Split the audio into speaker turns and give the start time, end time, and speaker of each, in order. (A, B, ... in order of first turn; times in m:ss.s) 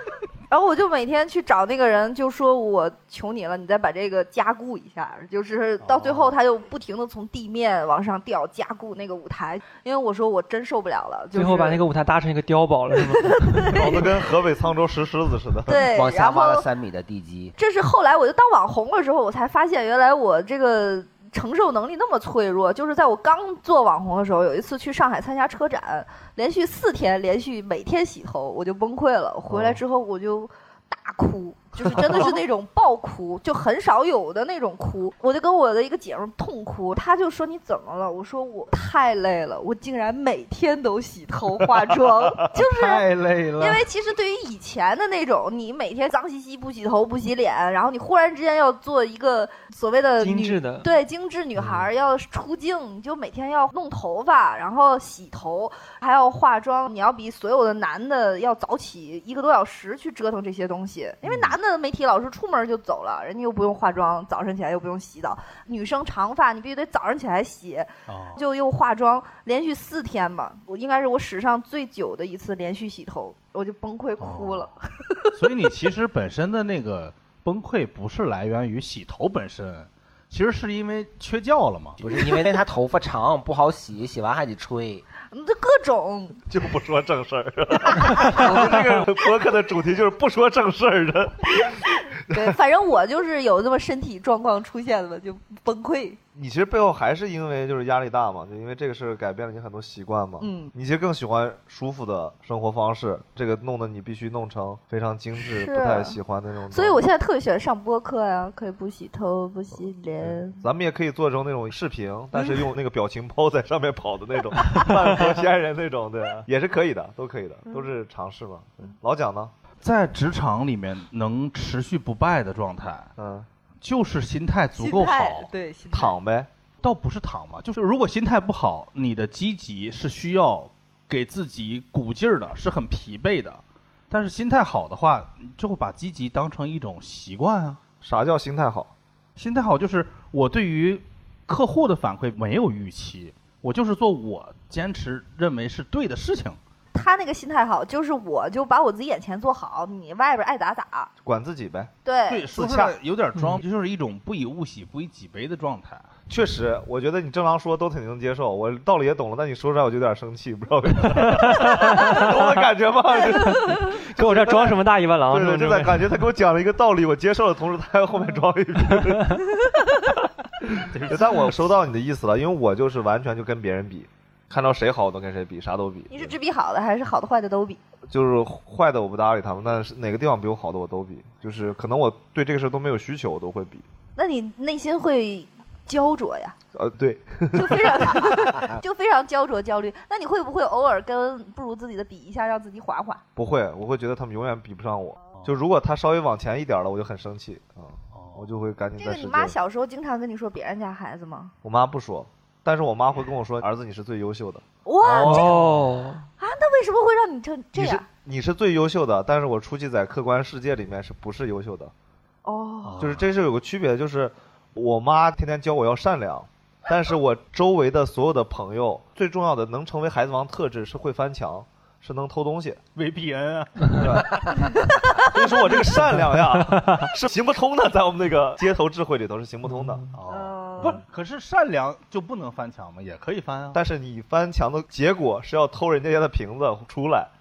0:00.5-0:11.8 A
0:05.9-0:06.3 B
0:11.3-0:13.9 C
0:13.1-0:14.1 A
0:13.7-0:15.9 B
0:15.7-0:16.6 A
0:15.9-0:17.6 D
0:17.6-1:15.4 A
0:29.5-0:29.8 B
0:42.5-0:43.8 E
0:50.2-0:50.9 C
0:51.6-0:51.8 B
1:01.2-1:01.6 E
1:08.1-1:08.4 E
1:14.2-1:14.7 E
1:15.4-1:22.0 E
1:22.0-1:25.0 D
1:25.3-1:26.4 A
1:26.5-1:32.5 B
1:28.2-1:28.6 A
1:31.6-1:36.2 A
1:36.3-1:47.0 B
1:40.4-1:40.7 A
1:45.4-1:46.2 A
1:46.7-1:50.6 A
1:50.2-1:59.5 B
1:59.8-2:03.1 E
2:03.2-2:03.5 B
2:03.8-2:05.5 E
2:04.8-2:06.2 A
2:05.9-2:06.5 B
2:06.8-2:17.8 E
2:18.0-2:18.9 B
2:19.4-2:26.6 E
2:26.9-2:31.1 A
2:31.2-2:31.9 B
2:32.0-2:32.6 A
2:32.3-2:36.1 E
2:32.5-2:32.9 B
2:36.3-2:49.4 B
2:41.2-2:42.5 C
2:43.3-2:46.1 C
2:50.6-2:56.3 B
2:50.9-2:51.7 E
2:56.1-2:57.8 A
2:58.1-3:03.8 B
3:04.2-3:06.6 A
3:06.7-3:08.4 B
3:07.5-3:13.2 A
3:13.4-3:19.5 B
3:18.1-3:18.5 E
3:19.0-3:21.5 A
3:21.6-3:25.6 B
3:24.8-3:25.6 A
3:25.2-3:26.2 C
3:25.4-3:25.8 E
3:26.3-3:28.0 A
3:27.7-3:31.9 B
3:32.4-3:33.0 A
3:32.8-3:33.3 E
3:33.0-3:42.8 B
3:42.9-3:44.7 E
3:44.0-3:44.3 B
3:45.2-3:50.0 B
3:46.8-3:47.0 C
3:50.1-3:53.8 E
3:50.3-3:51.0 A
3:53.7-3:57.3 B